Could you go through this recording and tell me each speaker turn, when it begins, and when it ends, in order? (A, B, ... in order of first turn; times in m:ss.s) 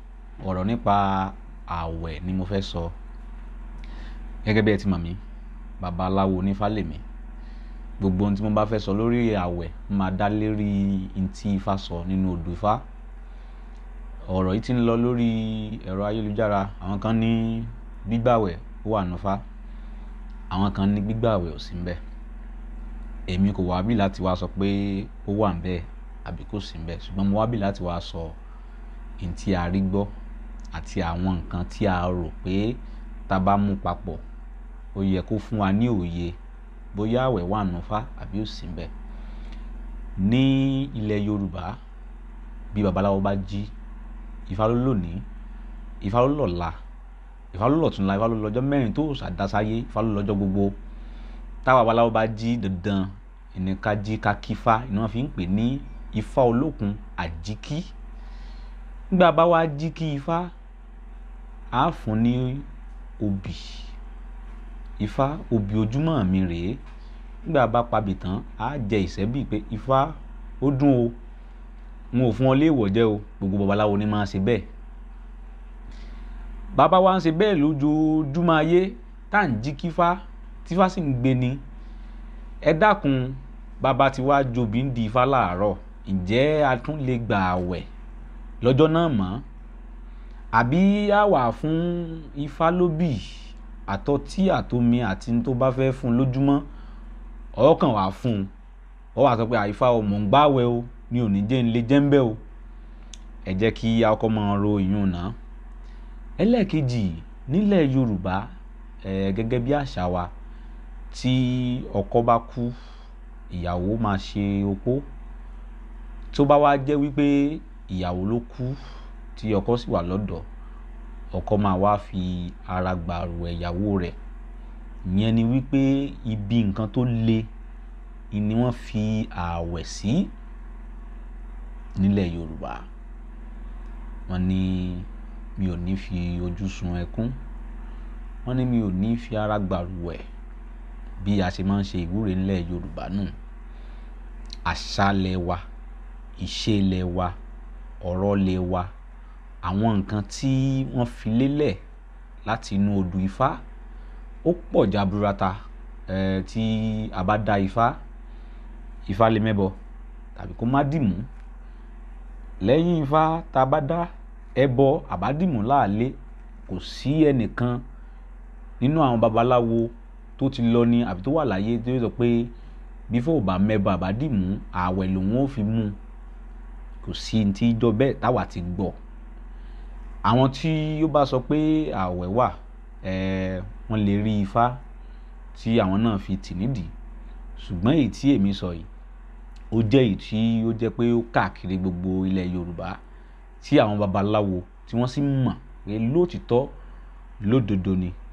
0:00.4-0:02.9 A
0:04.4-0:05.2 A
0:05.8-0:07.0 A
0:08.0-0:12.8 A
0:14.3-0:19.4 A
0:20.5-0:22.0 A
0:23.3-0:28.4 A
0:29.2-0:30.1 A
0:30.7-0:34.2 A
0:34.9-0:36.4 A
0:36.9-0:38.9 A
0:40.2-0:41.8 A
0:42.7-0:43.7 A
0:44.5-0:45.3 A
0:46.0-0:46.8 A
0:47.5-0:50.8 A
0:51.6-0:57.9 A
0:59.1-1:00.5 A
1:01.7-1:02.7 A
1:03.2-1:03.9 A
1:05.0-1:06.8 A
1:07.4-1:11.2 A
1:12.1-1:14.7 A
1:16.7-1:21.6 A
1:22.6-1:27.9 A
1:28.6-1:29.4 A
1:30.5-1:36.7 A
1:37.6-1:38.5 A
1:39.2-1:42.4 A
1:43.4-1:45.4 A
1:46.4-1:48.5 A
1:49.0-1:50.3 A
1:51.1-1:52.8 A
1:53.5-1:55.1 A
1:56.3-1:58.8 A
1:59.4-2:00.4 A
2:01.3-2:04.2 A
2:05.0-2:07.5 A
2:08.3-2:10.3 A
2:12.0-2:12.9 A
2:14.3-2:17.4 A
2:18.4-2:20.2 A
2:21.2-2:23.3 A
2:24.7-2:25.6 A
2:26.4-2:27.4 A
2:28.0-2:28.9 A
2:29.6-2:31.8 A
2:32.5-2:33.6 A
2:34.4-2:38.0 A
2:39.1-2:39.8 A
2:40.4-2:41.3 A
2:42.6-2:46.2 A
2:46.7-2:47.8 A
2:48.8-2:52.5 A
2:53.1-2:56.0 A
2:57.0-2:59.0 A
3:00.2-3:04.8 A
3:05.5-3:06.9 A
3:07.6-3:08.9 A
3:09.7-3:13.0 A
3:13.6-3:16.7 A
3:17.4-3:18.2 A